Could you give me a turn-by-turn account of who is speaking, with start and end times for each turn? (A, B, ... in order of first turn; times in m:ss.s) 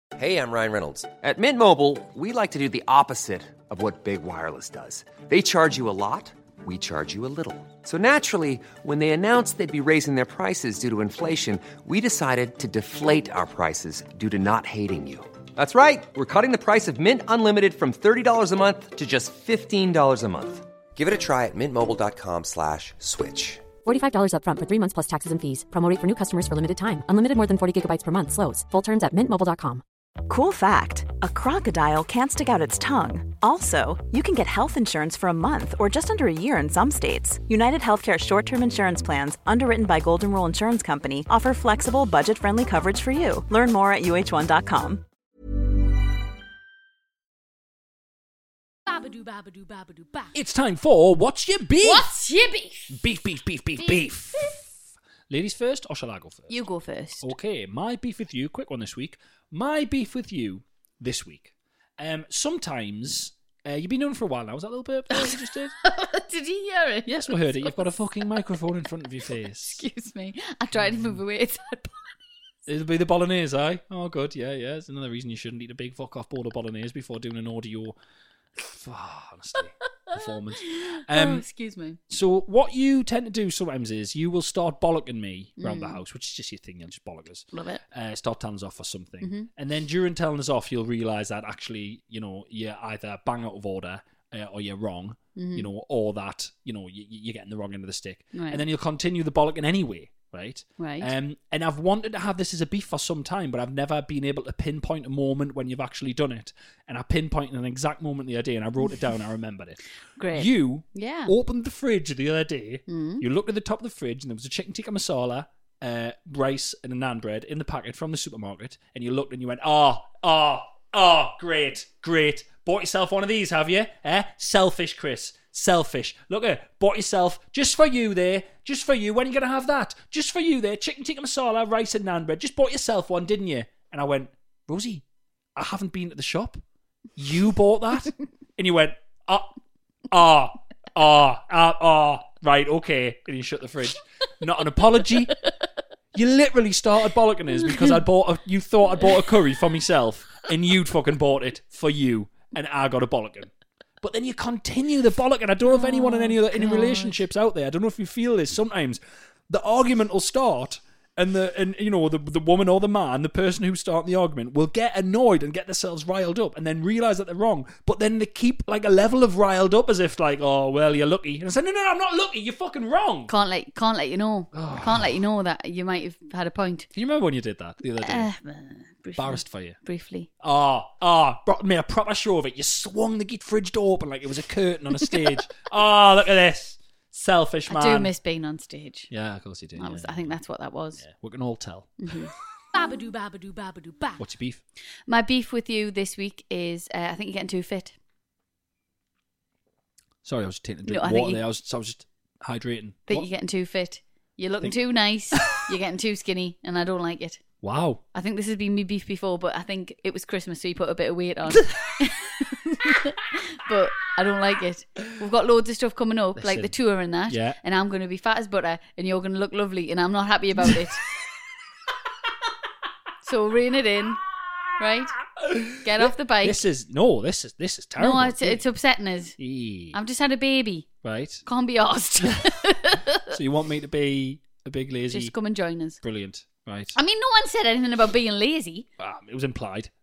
0:00.2-0:23.7 A
0:23.8-0:29.8 B
0:30.2-0:45.0 C
0:48.9-0:50.3 D
0:50.3-0:52.1 E
0:51.8-0:52.9 F
0:52.9-0:54.8 E
0:55.3-0:56.6 E
0:56.5-0:57.3 F
0:57.2-1:05.7 E
1:05.1-1:07.8 F
1:07.0-1:09.8 E
1:09.5-1:12.0 F
1:10.8-1:11.1 E
1:12.6-1:18.0 E
1:18.6-1:21.4 E
1:20.1-1:22.0 F
1:22.1-1:49.8 E
1:25.6-1:26.0 F
1:27.5-1:27.8 F
1:29.2-1:29.5 F
1:35.4-1:35.7 F
1:38.3-1:38.6 F
1:40.8-1:41.1 F
1:50.2-1:51.3 F
1:50.3-2:15.0 E
1:52.9-1:53.2 F
2:15.6-2:16.6 E
2:17.2-2:19.5 E
2:20.1-2:25.4 E
2:26.1-2:53.3 E
2:35.7-2:37.2 F
2:53.3-2:56.9 F
2:54.5-2:55.1 E
2:56.9-2:58.3 E
2:58.0-3:00.3 F
2:59.2-2:59.8 E
3:00.4-3:08.1 E
3:07.7-3:09.1 F
3:09.1-3:10.3 E
3:09.8-3:11.0 F
3:11.0-3:12.1 E
3:12.0-3:12.3 F
3:12.7-3:14.2 D
3:14.2-3:14.6 E
3:15.1-3:17.9 F
3:20.2-3:23.3 E
3:20.8-3:21.4 F
3:23.1-3:27.4 F
3:25.3-3:25.7 E
3:27.6-3:28.0 E
3:28.1-3:41.0 F
3:31.5-3:31.9 E
3:36.4-3:36.7 E
3:37.3-3:37.6 E
3:43.2-3:44.2 F
3:44.8-3:45.2 F
3:45.3-3:48.6 E
3:45.8-3:46.6 F
3:48.0-3:49.4 F
3:49.4-3:50.0 E
3:49.9-3:50.9 F
3:51.0-3:51.4 E
3:51.4-3:53.4 F
3:52.2-3:52.5 E
3:53.3-3:55.3 E
3:55.1-3:56.0 F
3:56.0-3:57.0 E
3:56.9-3:58.9 F
3:59.0-3:59.9 E